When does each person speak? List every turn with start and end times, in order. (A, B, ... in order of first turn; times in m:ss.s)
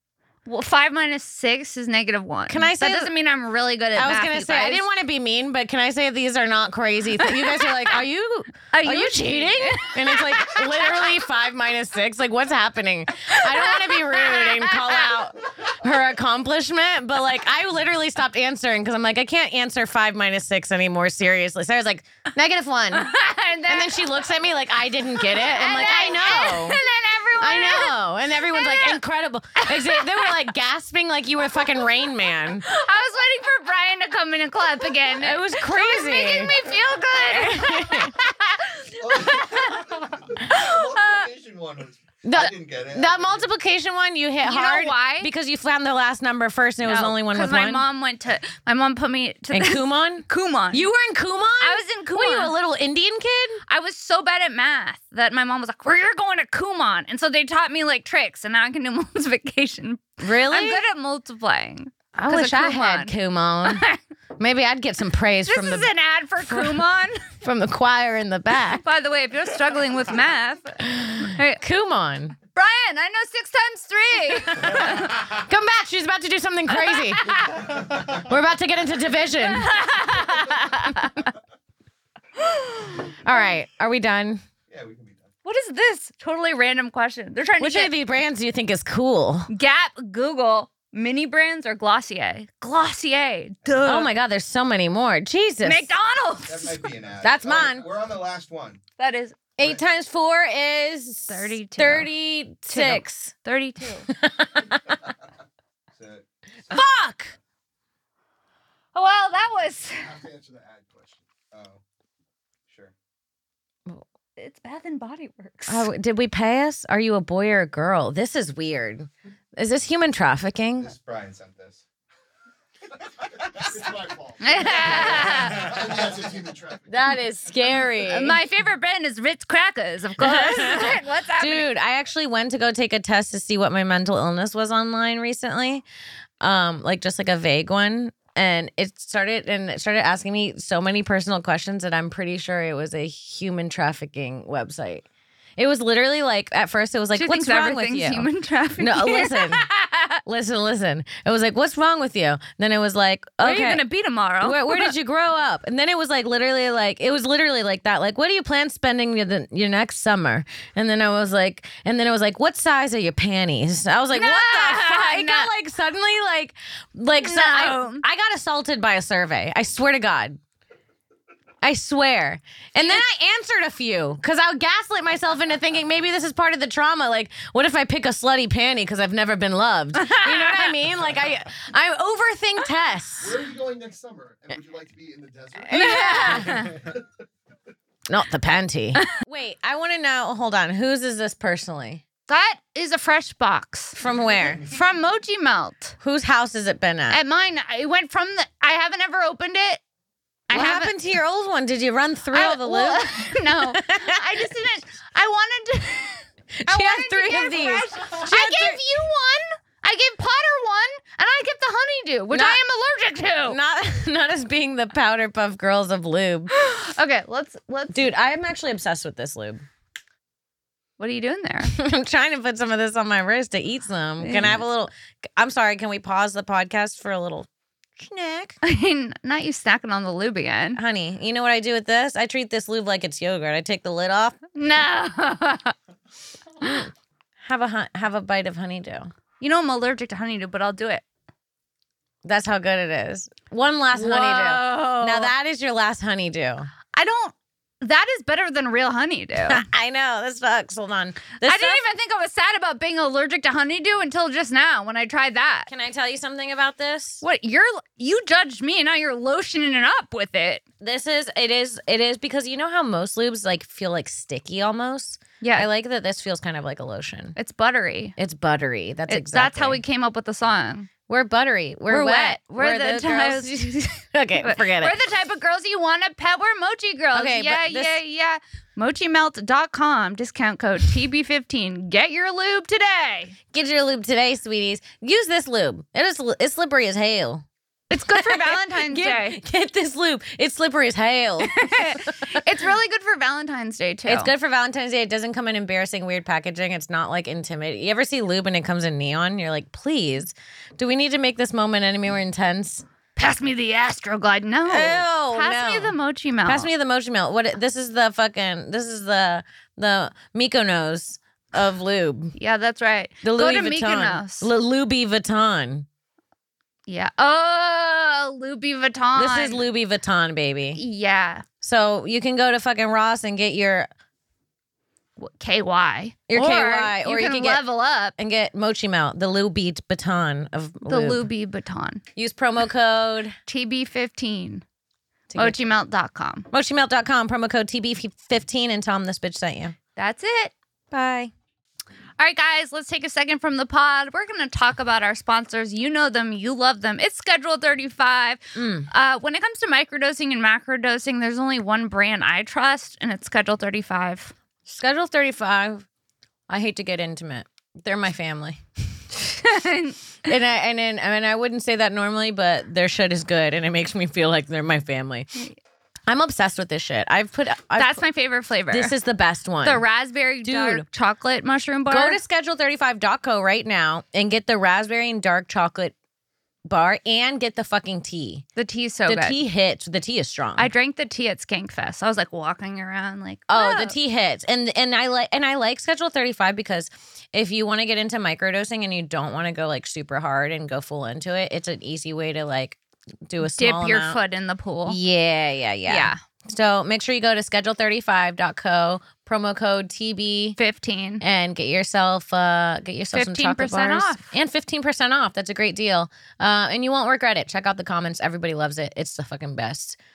0:00.4-0:04.8 A
0:02.5-0:03.1 B
0:03.9-0:23.1 B
0:07.2-0:07.7 A
0:08.7-0:11.0 A
0:13.3-0:15.1 A
0:22.9-0:24.0 A
0:23.7-0:26.8 B
0:25.2-0:29.0 A
0:27.4-0:32.6 B
0:29.6-0:30.3 A
0:32.6-0:39.9 A
0:35.2-0:38.1 B
0:39.0-0:43.5 C
0:40.5-0:41.2 A
0:42.2-0:47.8 B
0:44.4-0:45.3 A
0:46.8-0:50.8 A
0:49.5-0:53.6 B
0:51.6-0:52.5 A
0:53.7-1:03.1 A
1:00.2-1:00.8 B
1:02.1-1:03.8 B
1:03.6-1:04.0 A
1:04.4-1:06.8 B
1:05.5-1:07.3 A
1:07.4-1:08.8 B
1:08.8-1:11.6 A
1:10.8-1:12.4 B
1:12.5-1:15.2 A
1:14.5-1:19.8 B
1:16.7-1:17.7 A
1:19.4-1:21.0 A
1:20.4-1:21.1 B
1:22.4-1:23.2 A
1:23.2-1:24.4 B
1:24.7-1:25.3 C
1:25.4-1:27.9 A
1:27.6-1:29.5 B
1:29.5-1:34.1 A
1:33.6-1:34.0 C
1:33.8-1:35.9 B
1:35.6-1:36.8 A
1:36.4-1:38.8 C
1:37.2-1:37.8 B
1:39.0-1:39.4 A
1:39.6-1:43.3 B
1:41.3-1:42.1 A
1:42.7-1:44.1 A
1:44.1-1:45.0 B
1:45.9-1:46.8 C
1:46.7-1:47.3 B
1:48.9-1:50.1 A
1:50.0-1:51.8 C
1:52.7-1:52.9 C
1:54.4-1:55.9 A
1:55.7-2:00.9 B
2:00.8-2:01.8 C
2:03.0-2:07.7 C
2:04.4-2:05.7 A
2:06.9-2:08.4 B
2:08.0-2:11.7 A
2:10.2-2:15.8 B
2:16.4-2:25.0 B
2:25.6-2:29.6 B
2:27.1-2:30.2 A
2:30.2-2:33.8 B
2:33.4-2:34.9 A
2:34.4-2:50.4 B
2:44.1-2:45.5 A
2:47.2-2:48.0 A
2:51.6-3:03.4 B
2:52.8-2:53.0 A
2:59.9-3:00.7 A
3:03.2-3:07.0 C
3:05.7-3:06.7 B
3:05.7-3:06.7 A
3:08.1-3:12.0 B
3:12.3-3:14.0 A
3:13.9-3:14.6 B
3:14.7-3:16.0 A
3:16.0-3:17.2 B
3:17.1-3:19.8 A
3:20.5-3:20.9 A
3:20.5-3:24.4 B
3:22.3-3:33.6 A
3:26.6-3:28.8 B
3:32.3-3:32.6 B
3:33.4-3:36.5 B
3:36.5-3:38.1 A
3:37.9-3:39.6 B
3:41.0-3:41.7 A
3:41.7-3:48.6 B
3:44.2-3:44.6 A
3:48.6-3:50.8 A
3:50.8-3:54.4 B
3:54.5-3:55.7 A
3:56.6-3:56.9 B
3:57.4-3:59.1 B
3:59.4-4:01.0 A
4:02.2-4:06.7 B
4:03.9-4:05.3 A
4:06.9-4:09.6 A
4:09.5-4:11.8 B
4:11.4-4:15.7 A
4:15.7-4:17.2 B
4:17.2-4:20.6 A
4:20.8-4:27.4 B
4:25.4-4:25.7 A
4:27.4-4:28.2 A
4:28.2-4:29.8 B
4:29.1-4:30.9 A
4:31.1-4:35.0 B
4:31.9-4:33.5 A
4:34.4-4:43.4 A
4:37.1-4:38.0 B
4:43.5-4:52.4 B
4:47.9-4:49.4 A
4:51.4-4:54.3 A
4:54.0-5:02.8 B
5:03.2-5:06.7 A
5:04.7-5:12.3 B
5:12.4-5:14.5 A
5:13.2-5:15.9 B
5:16.9-5:19.6 A
5:19.1-5:20.8 B
5:20.7-5:21.4 A
5:21.6-5:23.9 B
5:25.2-5:28.1 A
5:26.3-5:27.6 B
5:28.2-5:31.2 B
5:30.8-5:32.0 A
5:32.2-5:33.3 B
5:33.5-5:34.6 A
5:35.3-5:35.6 B
5:35.4-5:36.5 A
5:36.5-5:39.7 B
5:40.0-5:40.5 A
5:40.9-5:41.3 B
5:42.2-5:54.3 A
5:48.6-5:48.9 B
5:54.6-5:55.9 B
5:56.5-5:58.6 B
5:59.2-6:00.0 A
6:00.2-6:05.4 B
6:06.1-6:08.0 B
6:07.8-6:08.9 A
6:08.7-6:09.8 B
6:09.6-6:12.2 A
6:10.4-6:10.8 B
6:11.9-6:15.9 B
6:16.7-6:18.4 B
6:18.6-6:19.4 A
6:19.1-6:20.7 B
6:20.6-6:24.0 A
6:23.5-6:34.2 B
6:33.4-6:35.0 A
6:34.9-6:40.6 B
6:35.9-6:36.2 A
6:40.6-6:41.2 A
6:41.2-6:50.0 B
6:43.1-6:44.3 A